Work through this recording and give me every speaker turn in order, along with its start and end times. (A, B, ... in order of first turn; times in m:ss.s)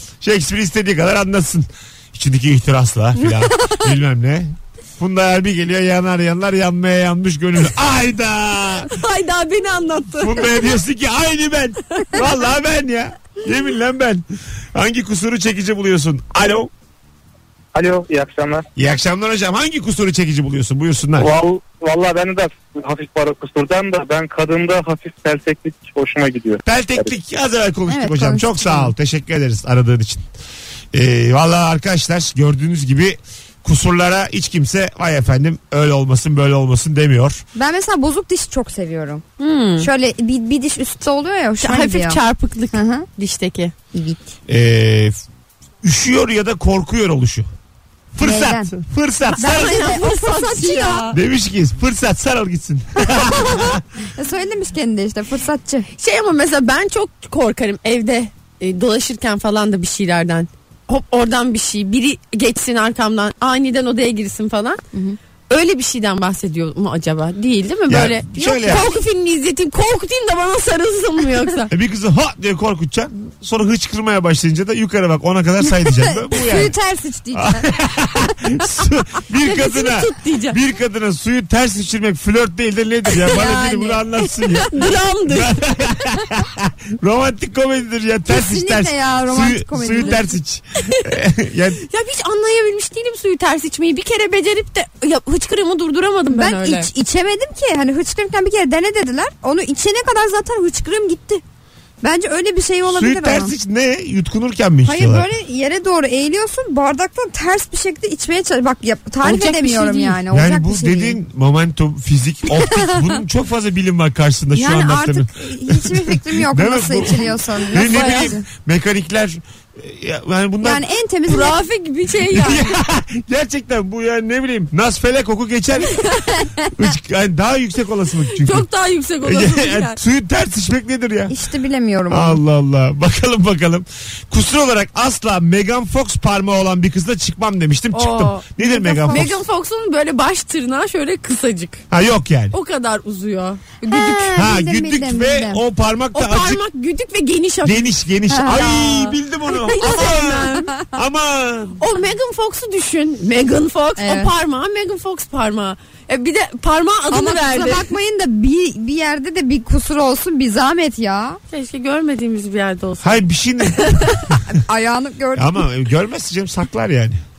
0:00.2-0:08.9 A
0:03.2-0:03.8 B
0:08.9-0:10.6 C
0:10.2-0:16.7 A
0:17.7-0:18.7 D
0:18.8-0:21.3 A
0:21.2-0:27.1 D
0:26.6-0:30.3 A
0:27.9-0:28.9 B
0:30.9-0:37.4 A
0:37.6-0:39.2 B
0:39.4-0:39.9 C
0:39.8-0:42.2 B
0:41.6-0:43.7 C
0:42.7-0:43.1 B
0:43.9-0:44.3 B
0:44.5-0:45.2 A
0:45.8-0:47.5 A
0:48.1-0:49.9 A
0:48.2-0:48.7 B
0:49.4-0:51.1 B
0:49.4-0:51.2 C
0:51.1-0:53.8 A
0:54.2-0:55.9 B
0:56.0-1:04.8 C
1:04.9-1:05.2 B
1:05.5-1:11.7 C
1:07.9-1:08.9 A
1:08.4-1:09.0 B
1:11.7-1:16.7 A
1:15.6-1:17.7 B
1:17.3-1:31.8 A
1:19.4-1:20.6 C
1:23.2-1:25.6 C
1:28.3-1:30.4 B
1:31.8-1:36.9 C
1:36.3-1:41.4 B
1:42.0-1:43.5 B
1:42.9-1:45.3 A
1:44.8-1:51.2 B
1:49.2-1:50.2 C
1:50.3-2:00.8 A
1:52.5-1:53.2 B
1:54.6-1:58.4 B
1:57.7-1:58.4 C
2:00.6-2:01.6 B
2:01.3-2:02.7 C
2:02.3-2:06.0 A
2:06.7-2:08.7 A
2:08.4-2:10.0 C
2:09.2-2:11.4 A
2:11.3-2:12.4 B
2:12.1-2:19.4 A
2:17.9-2:21.8 C
2:18.6-2:19.3 B
2:21.9-2:22.6 A
2:22.5-2:24.3 C
2:23.8-2:25.6 B
2:24.4-2:26.6 A
2:26.1-2:27.9 C
2:27.6-2:31.8 A
2:28.3-2:29.2 B
2:29.5-2:30.7 C
2:31.8-2:37.9 C
2:34.0-2:34.3 B
2:37.1-2:41.4 B
2:41.5-2:44.4 C
2:43.0-2:44.4 A
2:44.5-2:45.6 B
2:45.4-2:47.2 A